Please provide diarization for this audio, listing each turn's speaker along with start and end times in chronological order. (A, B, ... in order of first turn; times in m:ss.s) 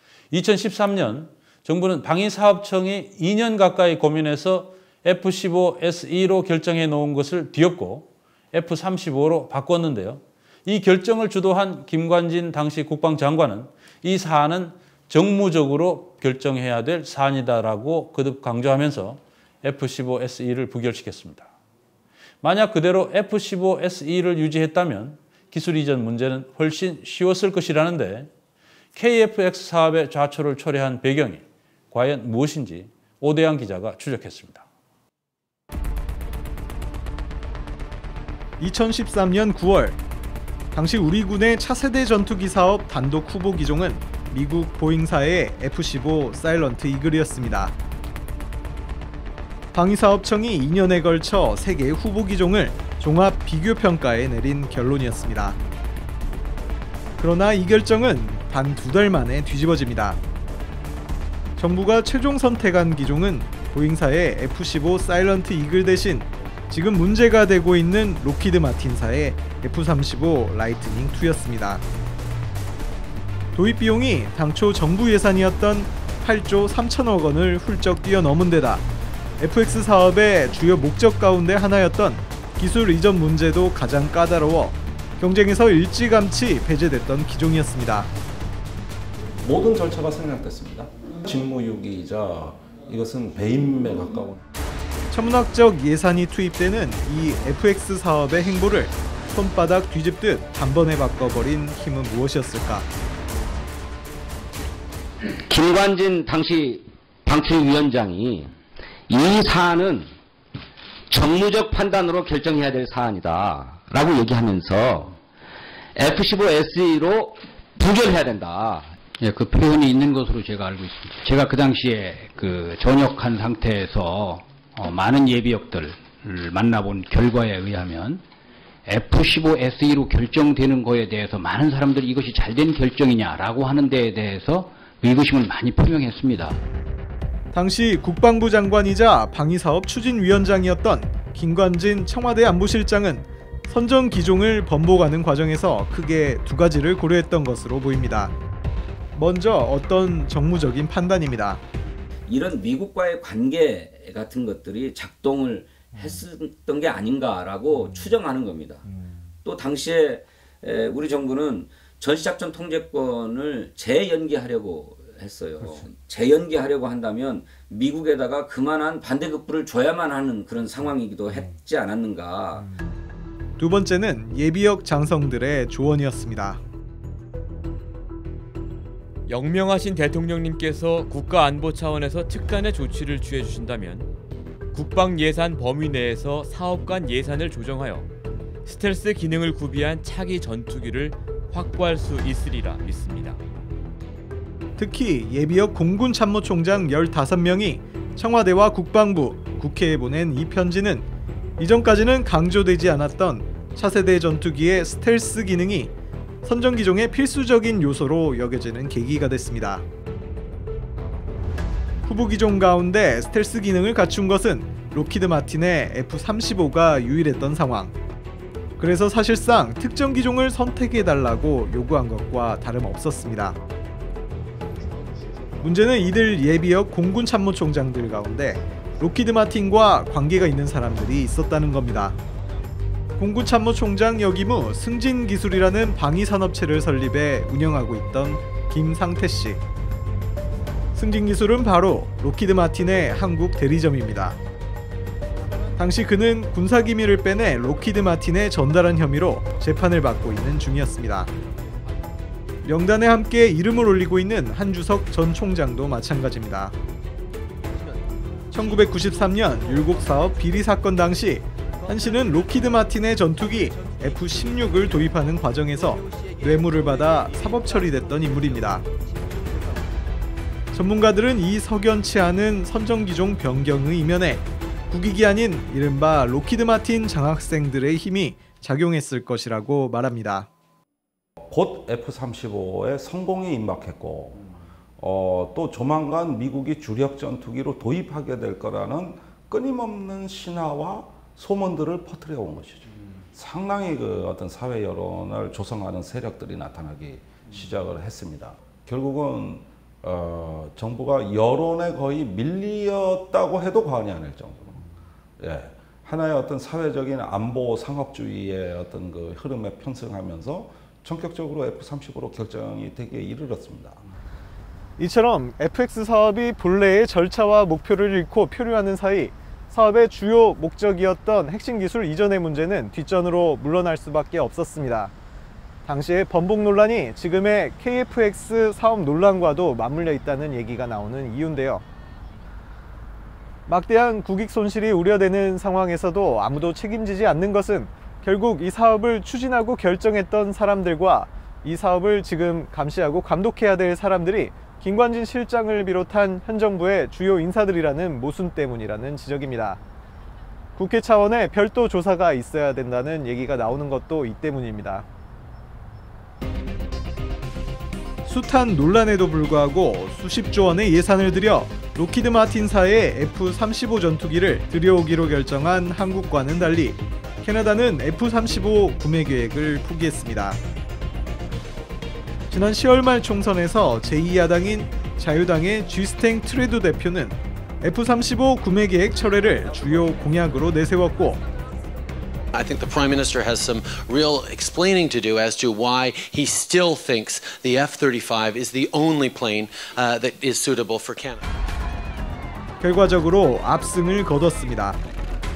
0:00.3-0:21.5 A
0:22.4-0:28.3 A
0:28.9-0:34.6 A
0:38.6-0:40.0 B
0:40.7-0:47.7 B
0:49.7-0:55.6 B
0:57.2-1:00.2 B
1:01.6-1:11.8 B
1:13.5-1:18.8 B
1:19.4-1:28.1 B
1:29.4-1:34.4 C
1:35.1-1:42.9 B
1:45.5-1:48.5 D
1:49.1-1:50.1 D
1:51.1-1:55.1 D
1:56.0-1:58.9 D
1:59.2-2:08.2 E
2:08.8-2:16.6 E
2:17.5-2:28.3 B
2:29.1-2:31.6 B
2:32.2-2:38.8 F
2:39.4-2:52.6 F
2:53.6-2:56.6 B
2:59.3-3:04.1 G
3:04.7-3:08.1 G
3:08.7-3:13.4 G
3:14.8-3:21.1 B
3:21.6-3:25.9 B
3:26.4-3:29.8 B
3:32.0-3:37.9 B
3:38.8-3:43.6 B
3:45.6-3:52.2 B
3:53.2-3:59.6 B
4:00.9-4:04.4 B
4:05.8-4:11.3 B
4:12.6-4:16.7 B
4:18.5-4:28.8 B
4:30.7-4:40.5 B
4:41.4-4:44.4 C
4:45.0-5:04.8 C
5:05.4-5:14.0 C
5:15.0-5:25.1 B
5:25.8-5:31.8 B
5:33.6-5:49.8 B
5:50.8-5:55.0 B
5:58.2-6:10.6 B
6:12.5-6:21.4 B
6:22.5-6:31.4 H
6:32.8-6:35.0 B